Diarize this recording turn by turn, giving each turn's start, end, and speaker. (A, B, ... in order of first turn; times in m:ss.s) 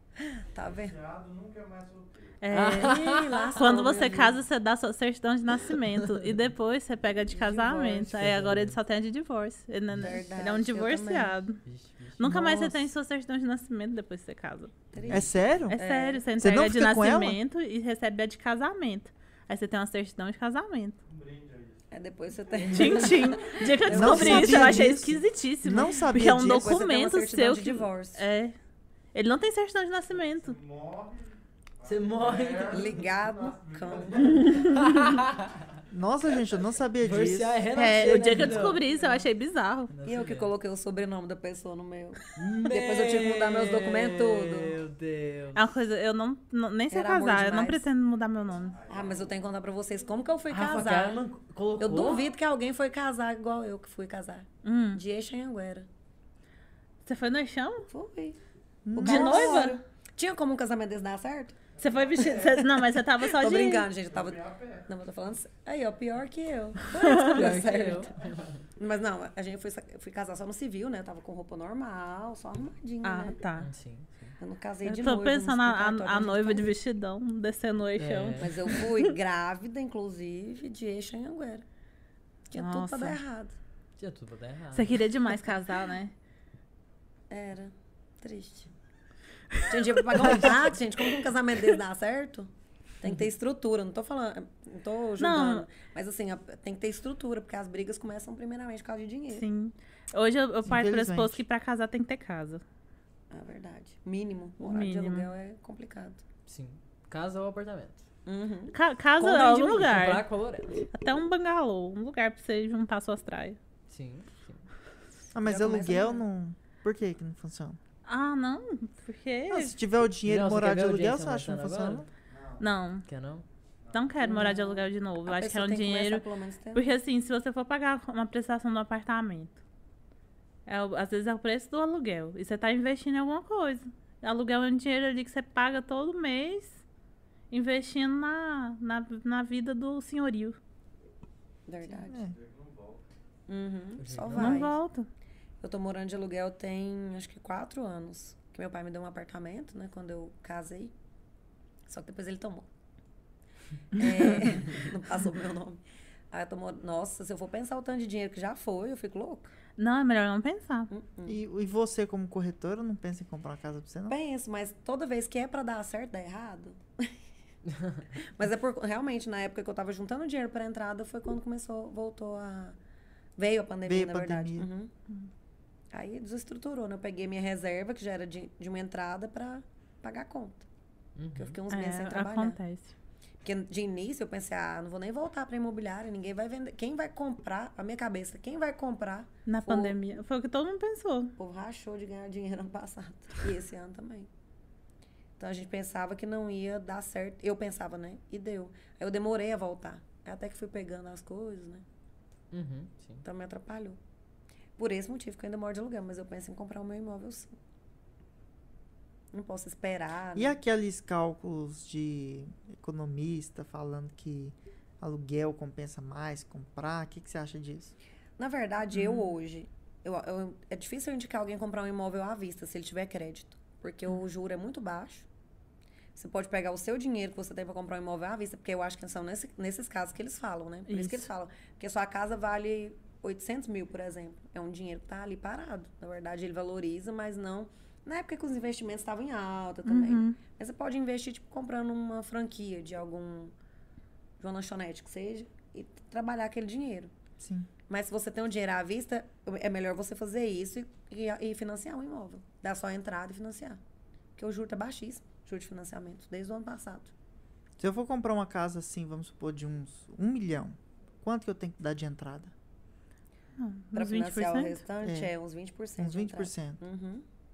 0:00.5-0:01.0 A
0:00.8-0:02.4 B
0:02.4-0:11.6 C
0:02.5-0:03.8 D
0:03.0-0:04.4 A
0:07.3-0:08.2 A
0:08.1-0:08.8 D
0:09.9-0:11.4 A
0:11.6-0:12.4 D
0:12.2-0:14.7 C
0:14.9-0:16.2 A
0:14.9-0:15.3 D
0:15.1-0:15.8 E
0:15.7-0:21.0 C
0:16.4-0:17.4 E
0:21.0-0:21.9 B
0:21.9-0:24.9 A
0:22.5-0:23.3 D
0:22.7-0:28.5 C
0:23.9-0:26.8 E
0:26.1-0:28.2 A
0:29.1-0:30.6 C
0:30.1-0:35.2 B
0:31.8-0:33.0 D
0:32.7-0:34.6 A
0:34.7-0:35.4 D
0:35.9-0:38.5 E
0:37.0-0:38.8 D
0:37.7-0:39.9 C
0:38.4-0:39.2 B
0:39.9-0:40.5 D
0:40.0-0:44.8 A
0:42.4-0:45.7 D
0:45.5-0:48.8 C
0:46.9-0:47.8 A
0:48.5-0:49.4 B
0:48.9-0:51.2 A
0:50.5-0:52.3 D
0:51.8-0:55.9 A
0:54.6-0:55.0 C
0:57.0-0:57.9 C
0:57.9-0:58.4 A
0:58.8-0:59.7 E
0:58.9-1:01.6 A
0:59.0-0:59.8 C
1:01.7-1:02.8 B
1:01.8-1:03.9 C
1:03.2-1:08.1 A
1:04.1-1:04.9 B
1:06.9-1:07.4 C
1:07.2-1:08.6 D
1:08.8-1:13.4 A
1:13.0-1:13.7 C
1:13.6-1:14.4 D
1:14.4-1:16.7 A
1:14.8-1:19.1 C
1:18.0-1:18.7 D
1:18.4-1:21.6 A
1:22.5-1:23.6 A
1:22.6-1:23.2 C
1:24.0-1:25.0 D
1:24.7-1:26.1 C
1:27.3-1:28.7 A
1:29.6-1:30.4 C
1:29.7-1:39.5 A
1:35.2-1:35.7 C
1:39.3-1:42.6 C
1:40.6-1:41.4 E
1:43.3-1:46.2 A
1:44.6-1:45.3 C
1:46.4-1:48.0 D
1:48.2-1:48.8 A
1:48.7-1:50.2 C
1:49.2-1:50.8 D
1:50.9-1:53.6 C
1:53.9-1:54.7 D
1:55.3-1:57.8 E
1:55.4-1:56.2 A
1:58.0-1:59.8 C
1:59.5-2:02.0 E
2:00.2-2:02.0 D
2:02.3-2:02.6 B
2:02.6-2:03.0 C
2:03.0-2:03.4 D
2:03.8-2:04.2 B
2:03.9-2:09.6 C
2:04.2-2:06.9 A
2:10.6-2:16.8 C
2:17.5-2:20.6 C
2:21.7-2:22.2 A
2:22.1-2:23.1 B
2:23.5-2:24.7 A
2:24.0-2:24.7 D
2:24.3-2:25.1 C
2:25.6-2:30.9 A
2:31.8-2:32.7 A
2:33.9-2:39.5 A
2:39.8-2:40.9 C
2:40.9-2:41.4 A
2:41.3-2:44.2 E
2:44.1-2:47.1 A
2:47.7-2:48.0 D
2:48.1-2:52.8 A
2:53.4-2:54.9 A
2:53.8-2:54.7 E
2:55.9-3:00.7 A
3:01.2-3:01.6 D
3:01.4-3:02.6 A
3:01.7-3:02.9 C
3:03.4-3:10.0 A
3:09.4-3:11.3 C
3:11.4-3:14.3 A
3:15.4-3:21.8 A
3:22.5-3:23.2 D
3:23.2-3:24.0 A
3:24.8-3:27.5 A
3:29.3-3:30.6 A
3:30.3-3:37.9 E
3:38.4-3:45.3 A
3:38.9-3:39.3 C
3:46.1-4:03.5 A
3:50.9-3:51.3 C
3:59.8-4:00.4 C
4:04.4-4:07.1 A
4:07.4-4:07.7 E
4:07.9-4:13.8 A
4:14.4-4:17.1 A
4:17.8-4:22.5 E
4:23.6-4:24.8 C
4:23.9-4:27.2 A
4:25.0-4:25.3 E
4:26.0-4:26.8 E